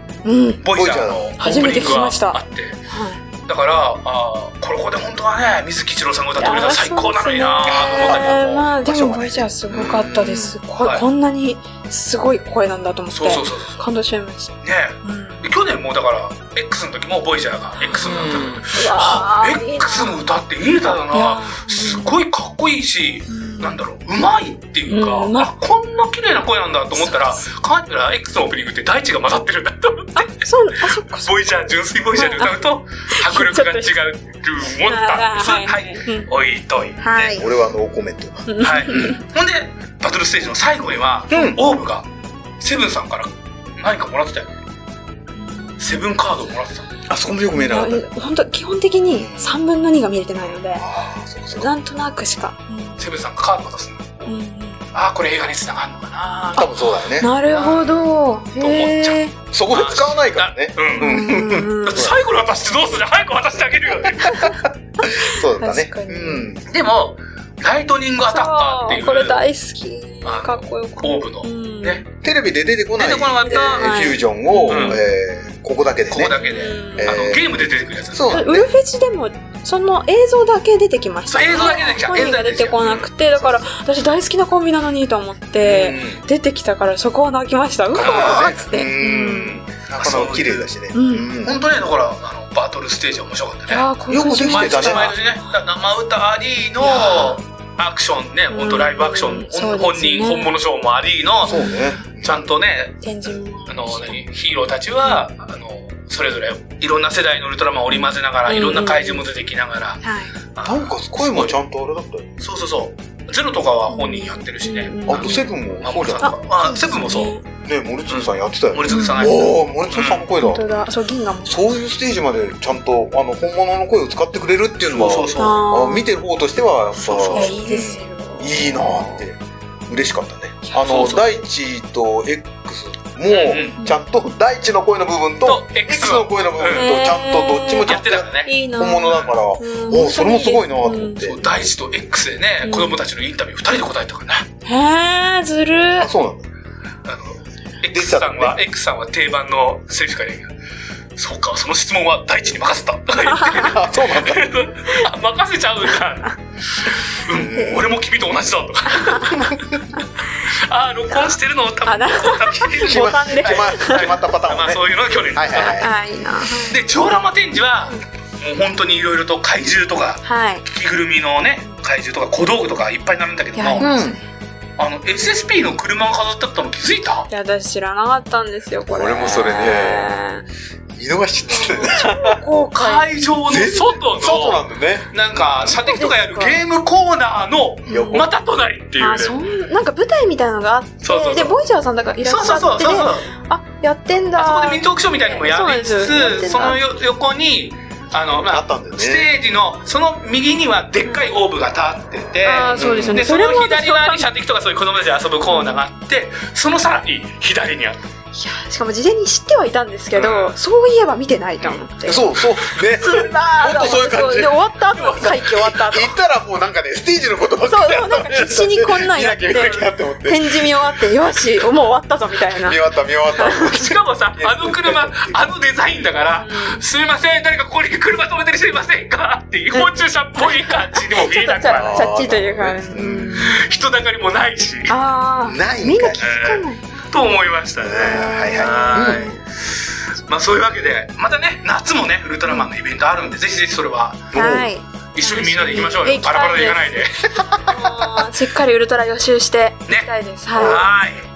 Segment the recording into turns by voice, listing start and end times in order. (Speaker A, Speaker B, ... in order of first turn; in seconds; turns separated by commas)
Speaker A: 0.2-0.6, Speaker B: 0.6-2.8, Speaker C: 0.7-1.3, Speaker A: 1.4-2.4, Speaker A: 2.9-3.2, Speaker B: 3.5-8.7, Speaker A: 6.4-15.5, Speaker C: 7.7-10.5, Speaker B: 13.1-13.8, Speaker B: 14.6-30.4, Speaker A: 17.8-20.2, Speaker C: 18.1-18.6, Speaker A: 21.1-22.2, Speaker A: 23.3-23.8, Speaker A: 24.9-25.6, Speaker A: 27.0-27.5, Speaker A: 30.2-31.6, Speaker B: 31.1-37.3, Speaker A: 32.1-32.6, Speaker A: 33.1-34.0, Speaker A: 34.8-36.3, Speaker A: 37.0-37.5, Speaker C: 37.2-39.1, Speaker A: 38.5-39.2, Speaker B: 38.6-42.1, Speaker C: 41.3-41.6, Speaker B: 42.6-44.6, Speaker A: 45.4-46.1, Speaker B: 45.8-46.9, Speaker C: 47.1-48.0, Speaker A: 47.5-50.9, Speaker C: 49.1-49.6, Speaker C: 50.8-51.7, Speaker A: 51.6-53.1, Speaker B: 53.0-54.3, Speaker A: 54.2-54.8, Speaker B: 54.9-56.7, Speaker C: 56.5-57.3, Speaker A: 56.5-59.4, Speaker B: 57.5-61.3, Speaker C: 59.5-62.2, Speaker A: 61.0-62.2, Speaker B: 61.8-64.5, Speaker A: 64.3-66.5, Speaker C: 64.4-66.7, Speaker B: 66.7-69.4, Speaker A: 68.3-72.1, Speaker B: 70.2-72.0, Speaker C: 72.2-76.4, Speaker B: 73.0-73.9, Speaker A: 73.4-75.0, Speaker B: 74.7-75.0, Speaker B: 76.1-78.4, Speaker A: 76.4-77.3, Speaker C: 77.0-78.7, Speaker A: 78.3-89.6, Speaker B: 81.3-83.1, Speaker C: 83.3-83.7, Speaker C: 85.6-86.2, Speaker C: 87.9-91.6, Speaker B: 88.0-88.6, Speaker B: 89.9-90.7, Speaker A: 90.9-91.3, Speaker B: 91.4-93.9, Speaker A: 93.7-95.2, Speaker C: 94.1-95.2, Speaker B: 94.4-103.0, Speaker A: 96.8-97.4, Speaker A: 98.5-100.5, Speaker A: 101.5-102.0, Speaker C: 101.5-102.5, Speaker A: 103.0-104.2, Speaker B: 103.7-110.0, Speaker A: 107.9-109.3, Speaker A: 110.0-110.3, Speaker B: 110.6-111.5, Speaker C: 110.7-112.3, Speaker B: 112.4-117.3, Speaker A: 113.9-115.6, Speaker C: 115.1-116.3, Speaker A: 116.2-117.5, Speaker C: 117.6-120.8, Speaker B: 118.1-120.3, Speaker A: 118.9-119.5, Speaker A: 120.4-121.8, Speaker C: 121.5-141.4, Speaker B: 124.9-125.6, Speaker A: 125.3-126.1, Speaker A: 127.0-129.2, Speaker B: 127.2-127.5, Speaker A: 130.6-131.2, Speaker B: 130.8-131.2, Speaker B: 133.3-133.8, Speaker B: 135.4-136.9, Speaker A: 136.7-141.4, Speaker B: 137.9-138.5, Speaker B: 141.2-144.5, Speaker A: 142.6-143.0, Speaker A: 144.7-146.1, Speaker C: 146.0-146.4, Speaker B: 147.1-150.5, Speaker C: 147.9-148.6, Speaker B: 151.2-165.8, Speaker A: 153.3-153.6, Speaker C: 153.5-154.5, Speaker C: 157.3-157.8, Speaker A: 157.5-157.8, Speaker A: 159.0-159.5, Speaker A: 161.8-164.1, Speaker C: 162.7-165.9, Speaker A: 165.5-166.8, Speaker B: 166.7-173.9, Speaker A: 170.2-170.7, Speaker A: 173.6-174.2, Speaker C: 173.8-174.2, Speaker B: 174.8-177.3, Speaker A: 177.3-180.4, Speaker C: 178.8-180.1, Speaker C: 181.0-182.2, Speaker A: 181.5-183.1, Speaker B: 182.0-189.4, Speaker C: 183.5-185.5, Speaker A: 185.7-186.6, Speaker A: 187.9-188.3, Speaker C: 187.9-188.3, Speaker A: 189.0-196.9, Speaker B: 191.0-191.6, Speaker B: 192.2-193.3, Speaker B: 194.4-208.1, Speaker C: 198.5-199.3, Speaker A: 202.4-204.3, Speaker C: 202.8-203.2, Speaker A: 205.5-205.8, Speaker A: 208.3-212.2, Speaker B: 210.2-210.6, Speaker C: 212.1-214.6, Speaker A: 212.8-216.1, Speaker B: 214.9-215.7, Speaker C: 215.7-220.8, Speaker A: 217.7-222.8, Speaker C: 222.6-225.4, Speaker A: 223.3-223.9, Speaker B: 223.6-232.1, Speaker A: 226.4-226.8, Speaker A: 229.7-233.6, Speaker C: 231.8-233.5, Speaker B: 233.3-235.0, Speaker A: 234.9-236.8, Speaker C: 235.5-236.3, Speaker B: 236.2-244.4, Speaker C: 237.8-239.3, Speaker A: 238.0-239.4, Speaker C: 244.3-244.7, Speaker A: 244.3-247.0, Speaker B: 245.2-247.4, Speaker A: 247.7-250.9, Speaker B: 249.9-251.2, Speaker C: 250.6-250.9